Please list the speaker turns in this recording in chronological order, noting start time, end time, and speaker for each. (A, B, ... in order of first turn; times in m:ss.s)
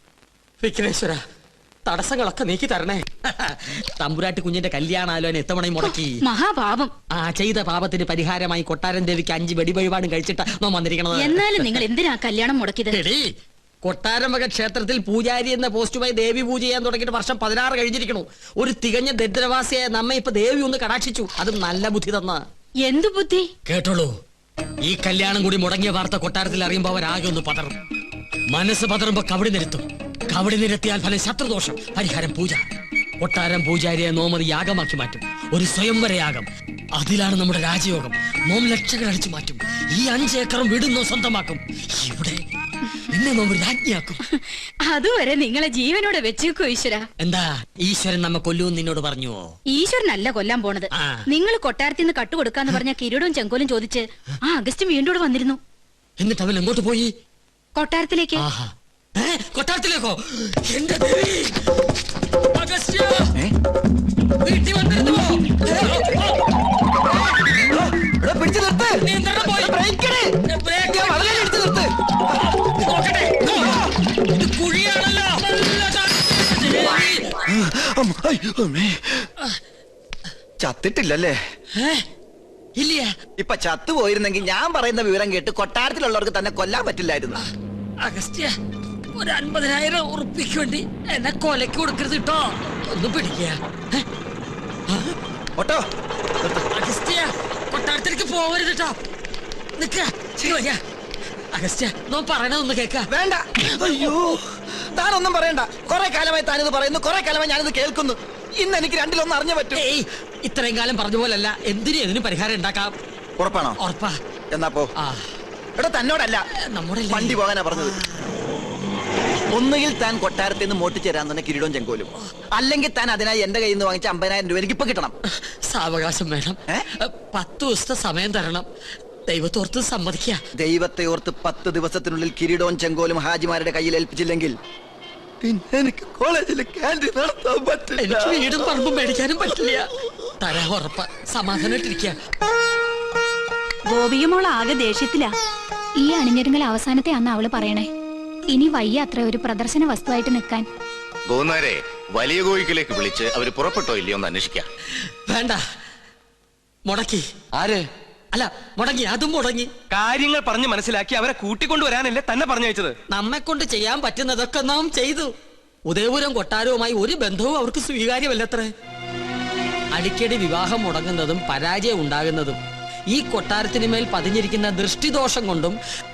0:00.6-0:01.2 A
0:01.8-0:06.2 A
0:05.8-0:06.9 B
0:07.1-0:11.8 A
0:11.1-0:13.0 B
0:12.9-0:13.3 A
0:13.8-0:22.4 A
0:22.8-0:23.5 B
0:23.6-0:24.2 A
0:24.8-0:27.7 A
0:28.5-0:32.6 A
0:33.2-0:42.4 A
0:43.1-0:44.2 A
0:44.3-0:47.1 B
0:47.2-0:49.5 A
0:49.7-0:55.6 B
0:50.9-0:51.2 A
0:56.2-0:57.1 A
0:57.8-0:58.4 B
0:58.4-1:01.7 A
1:02.5-1:03.3 A
1:04.4-1:06.4 A
1:07.3-1:07.7 A
1:07.7-1:10.4 C
1:09.0-1:09.8 A
1:10.4-1:11.8 A
1:11.2-1:11.8 C
1:12.6-1:17.4 A
1:17.5-1:19.3 C
1:20.6-1:21.4 C
1:21.8-1:22.0 A
1:22.8-1:23.1 A
1:23.4-1:27.4 C
1:28.0-1:28.6 A
1:29.2-1:34.1 A
1:35.6-1:35.8 C
1:36.4-1:39.0 A
1:39.8-1:40.8 A
1:41.5-1:43.1 A
1:43.1-1:49.8 C
1:49.7-1:52.9 A
1:53.4-1:53.8 C
1:53.8-1:54.2 A
1:54.5-1:54.9 C
1:55.0-1:55.2 A
1:55.8-1:56.4 C
1:56.7-1:57.4 A
1:57.1-1:58.0 C
1:59.5-2:05.1 C
2:05.7-2:08.7 A
2:09.3-2:10.4 A
2:10.6-2:14.6 C
2:15.4-2:18.6 C
2:18.0-2:22.2 A
2:23.9-2:25.3 B
2:26.0-2:27.9 D
2:28.5-2:30.6 D
2:31.3-2:34.7 E
2:35.3-2:35.6 A
2:36.9-2:37.2 A
2:38.3-2:39.7 A
2:39.9-2:42.9 F
2:43.1-2:45.3 A
2:45.9-2:48.7 A
2:49.9-2:55.8 A